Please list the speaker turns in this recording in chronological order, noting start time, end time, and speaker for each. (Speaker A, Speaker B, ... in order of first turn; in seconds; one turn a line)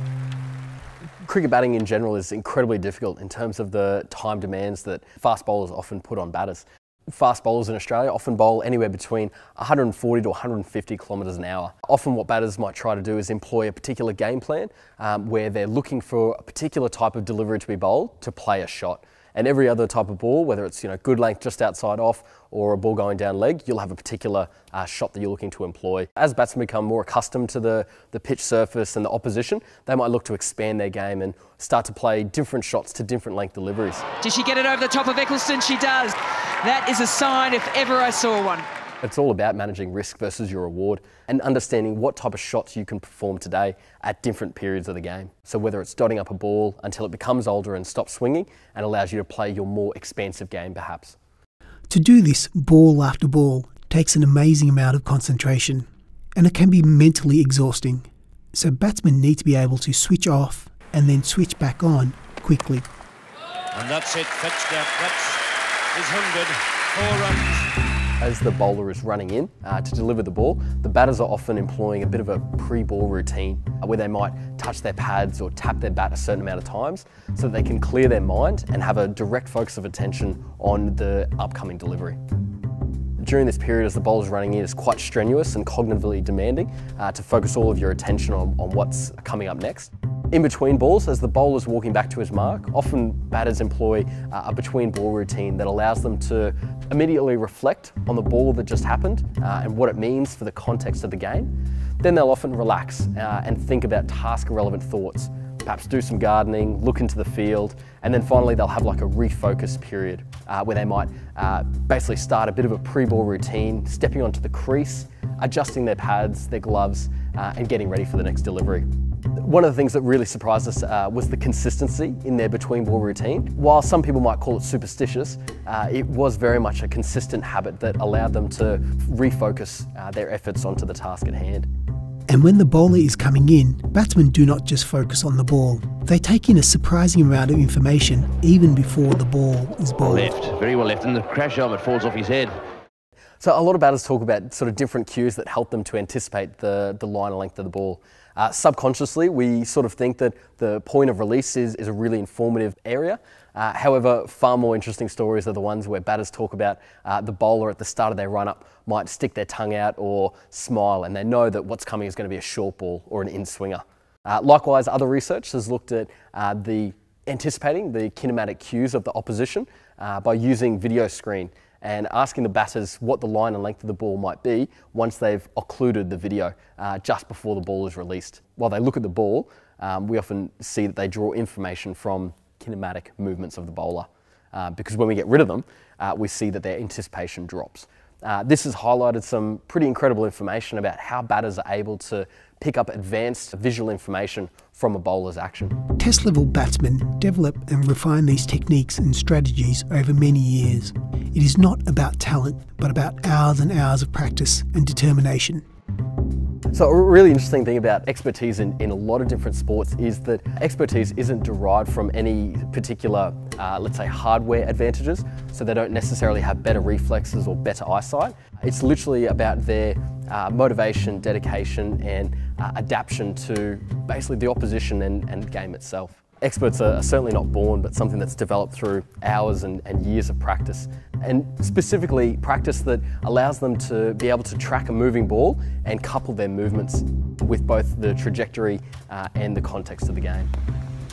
Speaker A: 1.2-34.0
Speaker B: 34.2-38.7
Speaker A: 39.0-51.2
Speaker C: 51.9-62.9
Speaker D: 63.7-65.4
Speaker E: 63.8-65.1
Speaker D: 66.0-66.5
Speaker E: 66.0-67.6
Speaker A: 68.2-82.2
Speaker A: 83.2-118.9
Speaker A: 119.4-131.7
Speaker C: 132.3-140.3
Speaker D: 140.0-142.6
Speaker A: 143.4-195.8
Speaker C: 196.0-205.6
Speaker A: 206.7-240.5